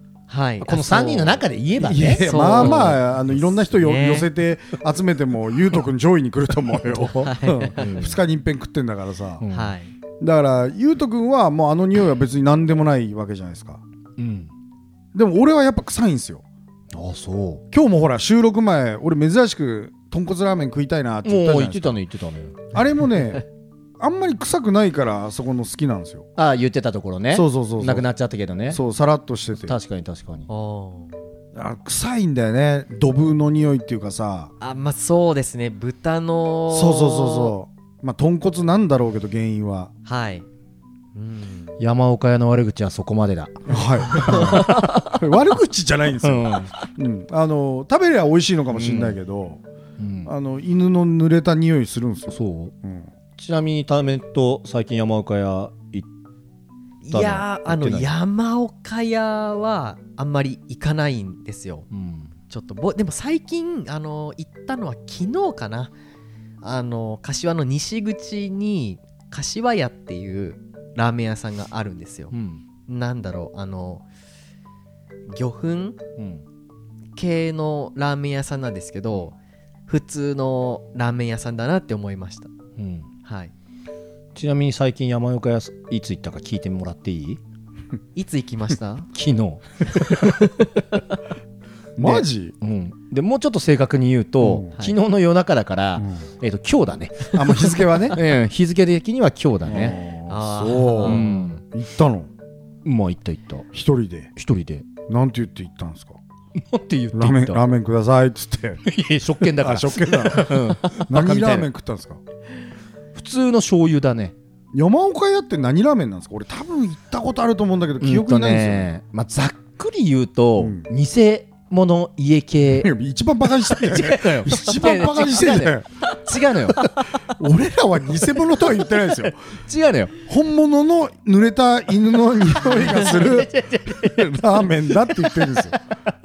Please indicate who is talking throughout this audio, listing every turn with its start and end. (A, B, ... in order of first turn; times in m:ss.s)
0:00.3-0:01.4 A
0:00.6-0:03.0 B
0:01.8-0:09.4 C
0:02.2-0:04.3 A
0:07.2-0:07.8 A
0:07.8-0:08.2 B
0:09.4-0:09.7 B
0:09.5-0:09.9 A
0:10.2-0:13.8 C
0:14.2-0:14.5 B
0:15.1-0:16.4 C
0:16.9-0:17.6 B
0:17.7-0:22.0 C
0:21.2-0:22.7 B
0:22.7-0:23.4 C
0:24.0-0:26.3 C
0:26.4-0:28.8 B
0:27.3-0:28.0 C
0:28.7-0:29.7 C
0:29.6-0:30.5 B
0:30.5-0:31.1 A
0:31.5-0:34.5 C
0:34.6-0:37.5 A
0:36.7-0:39.9 C
0:40.0-0:40.5 A
0:41.1-0:41.7 A
0:41.8-0:45.0 B
0:43.7-0:49.6 C
0:44.1-0:45.2 A
0:46.2-0:46.7 B
0:48.7-0:49.2 B
0:50.0-0:50.3 B
0:50.2-0:53.1 C
0:52.3-0:52.7 B
0:53.4-0:56.1 B
0:57.0-1:01.8 A
0:57.1-0:58.1 B
1:01.9-1:02.3 B
1:02.5-1:05.9 A
1:06.6-1:12.3 A
1:12.3-1:12.6 B
1:12.9-1:14.0 A
1:15.3-1:16.0 A
1:16.2-1:16.4 B
1:17.2-1:19.3 A
1:19.9-1:22.5 A
1:22.8-1:23.1 B
1:23.2-1:23.5 A
1:24.3-1:27.4 B
1:28.1-1:29.1 A
1:29.1-1:30.4 B
1:30.2-1:31.2 A
1:32.0-1:32.5 C
1:32.0-1:40.0 B
1:34.4-1:34.7 C
1:36.0-1:36.2 C
1:37.3-1:38.2 C
1:39.6-1:42.3 C
1:40.3-1:41.2 A
1:41.0-1:41.6 B
1:42.8-1:43.7 B
1:43.7-1:44.3 C
1:44.4-1:44.9 B
1:45.1-1:46.2 C
1:46.6-1:47.6 B
1:47.1-1:48.8 C
1:48.9-1:51.7 B
1:49.6-1:52.2 C
1:53.1-1:54.3 B
1:54.7-1:58.9 C
1:58.0-2:02.9 B
2:00.6-2:00.9 C
2:02.7-2:06.1 C
2:03.7-2:07.0 B
2:07.2-2:09.5 C
2:09.6-2:10.1 B
2:10.3-2:15.7 C
2:12.6-2:15.8 B